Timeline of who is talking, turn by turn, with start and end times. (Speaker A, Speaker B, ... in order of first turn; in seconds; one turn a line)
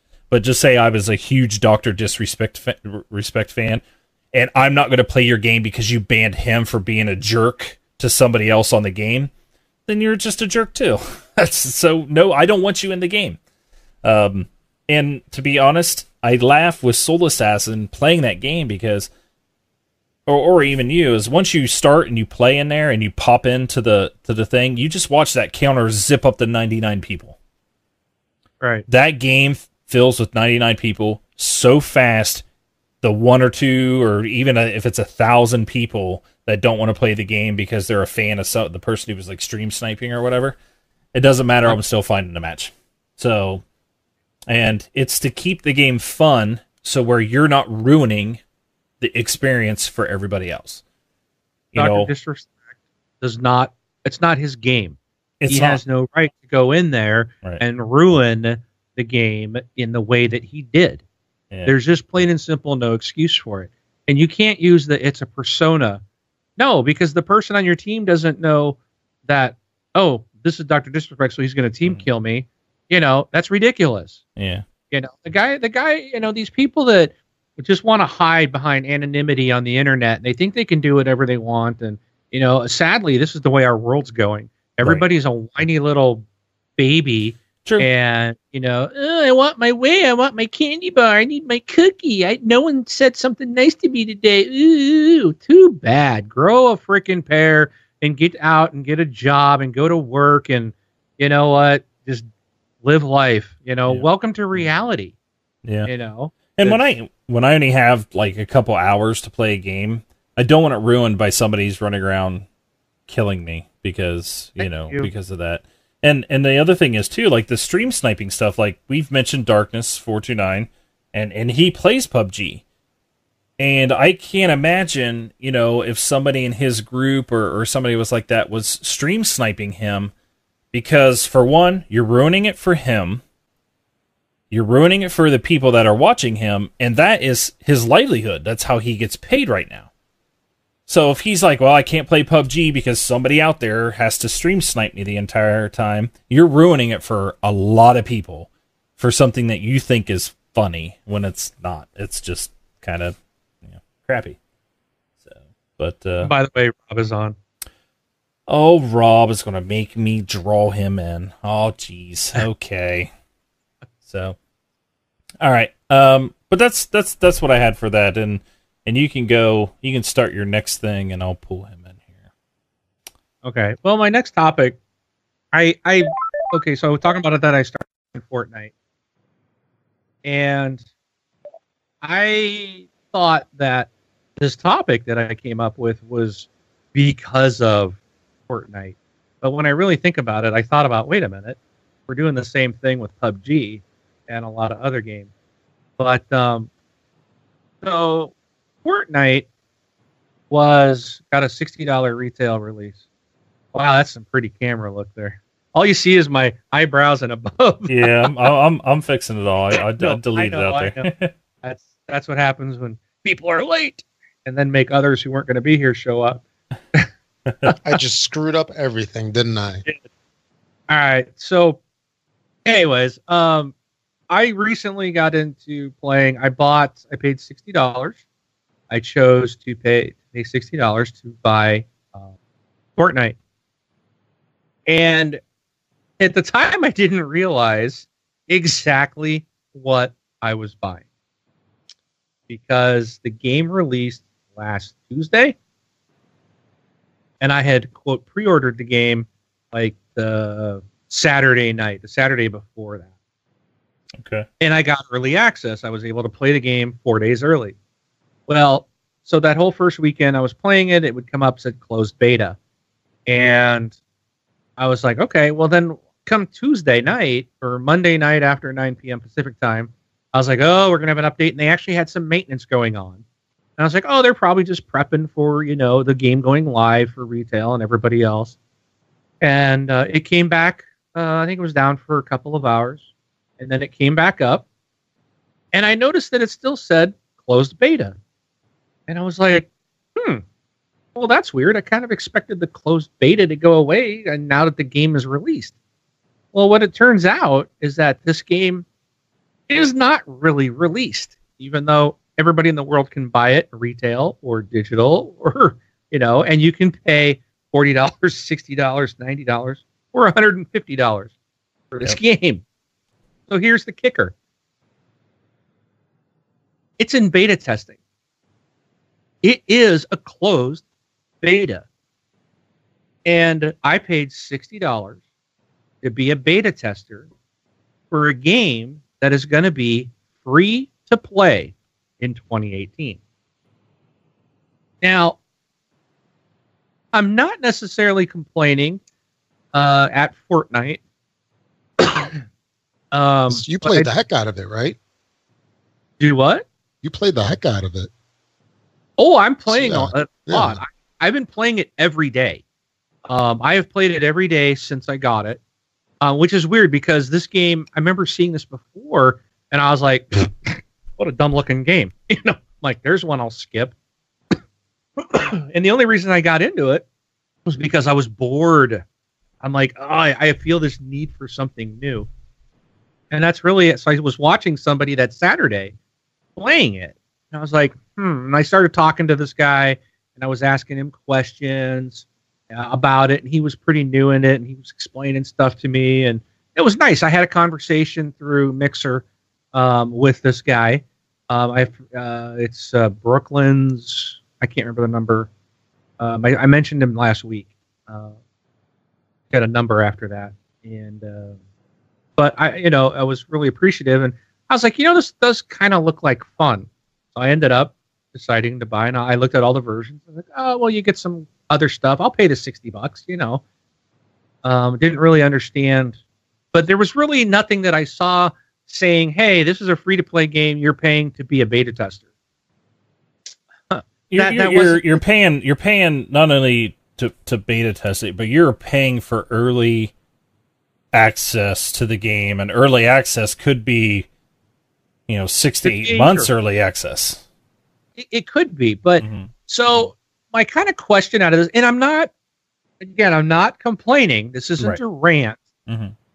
Speaker A: 0.3-3.8
Speaker A: 4.3-9.3
Speaker A: 9.9-13.4
Speaker A: 14.0-19.1
Speaker A: 20.2-27.4
Speaker B: 28.6-28.9
Speaker A: 28.9-32.4
Speaker A: 33.0-40.6
Speaker A: 41.1-43.6
Speaker A: 44.5-48.4
Speaker A: 49.0-50.8
Speaker A: 51.7-52.1
Speaker B: 51.7-52.5
Speaker B: 53.2-55.0
Speaker A: 55.4-55.8
Speaker B: 55.5-61.0
Speaker B: 61.6-66.0
Speaker B: 66.6-74.2
Speaker A: 74.4-74.6
Speaker B: 74.9-86.2
Speaker B: 86.8-102.2
Speaker B: 102.8-105.1
Speaker A: 105.6-105.9
Speaker B: 105.8-106.8
Speaker A: 106.5-112.5
Speaker A: 113.1-122.6
Speaker B: 114.6-115.1
Speaker A: 123.6-130.1
Speaker A: 130.7-133.2
Speaker A: 134.5-139.9
Speaker A: 140.9-154.4
Speaker A: 155.2-156.3
Speaker B: 156.2-157.3
Speaker A: 158.5-163.1
Speaker A: 164.1-164.4
Speaker A: 165.4-172.2
Speaker B: 173.4-174.8
Speaker B: 175.5-178.7
Speaker B: 180.2-180.8
Speaker B: 182.0-188.0
Speaker B: 188.5-191.6
Speaker B: 192.1-195.3
Speaker B: 196.0-196.7
Speaker B: 197.8-198.3
Speaker B: 198.8-199.4
Speaker B: 200.5-203.0
Speaker B: 203.7-208.3
Speaker A: 207.9-211.3
Speaker B: 210.0-211.1
Speaker B: 211.6-216.4
Speaker C: 217.8-219.8
Speaker B: 220.9-221.8
Speaker B: 222.7-223.7
Speaker B: 224.3-228.2
Speaker B: 228.9-232.3
Speaker B: 233.0-233.4
Speaker B: 234.9-235.4
Speaker B: 236.2-241.0
Speaker B: 242.5-245.6
Speaker B: 247.4-253.1
Speaker A: 254.2-254.5
Speaker B: 254.6-257.7
Speaker B: 258.5-262.6
Speaker B: 263.3-263.9
Speaker B: 264.8-273.2
Speaker B: 273.8-278.5
Speaker B: 279.4-283.0
Speaker B: 283.6-284.6
Speaker B: 285.7-288.1
Speaker B: 289.1-290.4
Speaker B: 291.1-295.7
Speaker B: 296.5-298.8
Speaker B: 299.7-311.3
Speaker B: 311.9-312.6
Speaker B: 313.5-314.3
Speaker B: 317.0-317.9
Speaker B: 319.4-320.8
Speaker B: 321.4-321.8
Speaker B: 323.2-325.2
Speaker B: 326.0-327.3
Speaker B: 328.1-333.2
Speaker B: 335.0-335.4
Speaker B: 337.1-339.0
Speaker B: 339.7-341.0
Speaker B: 342.0-342.3
Speaker B: 343.1-344.1
Speaker C: 343.5-344.9
Speaker B: 346.2-346.6
Speaker C: 347.0-348.1
Speaker B: 349.2-352.6
Speaker C: 349.7-350.8
Speaker B: 353.3-355.6
Speaker B: 356.2-363.9
Speaker B: 365.2-367.0
Speaker B: 367.6-369.0
Speaker B: 369.6-372.3
Speaker B: 373.3-375.9
Speaker B: 376.6-395.5
Speaker B: 396.2-398.3
Speaker B: 399.5-401.6
Speaker B: 402.4-413.6
Speaker B: 414.6-416.2
Speaker B: 416.7-422.2
Speaker B: 423.9-425.2
Speaker A: 424.3-430.1
Speaker A: 431.1-434.3
Speaker A: 435.3-437.4
Speaker B: 435.8-436.5
Speaker B: 438.2-442.3
Speaker A: 439.2-440.0
Speaker B: 443.0-445.6
Speaker A: 445.9-446.1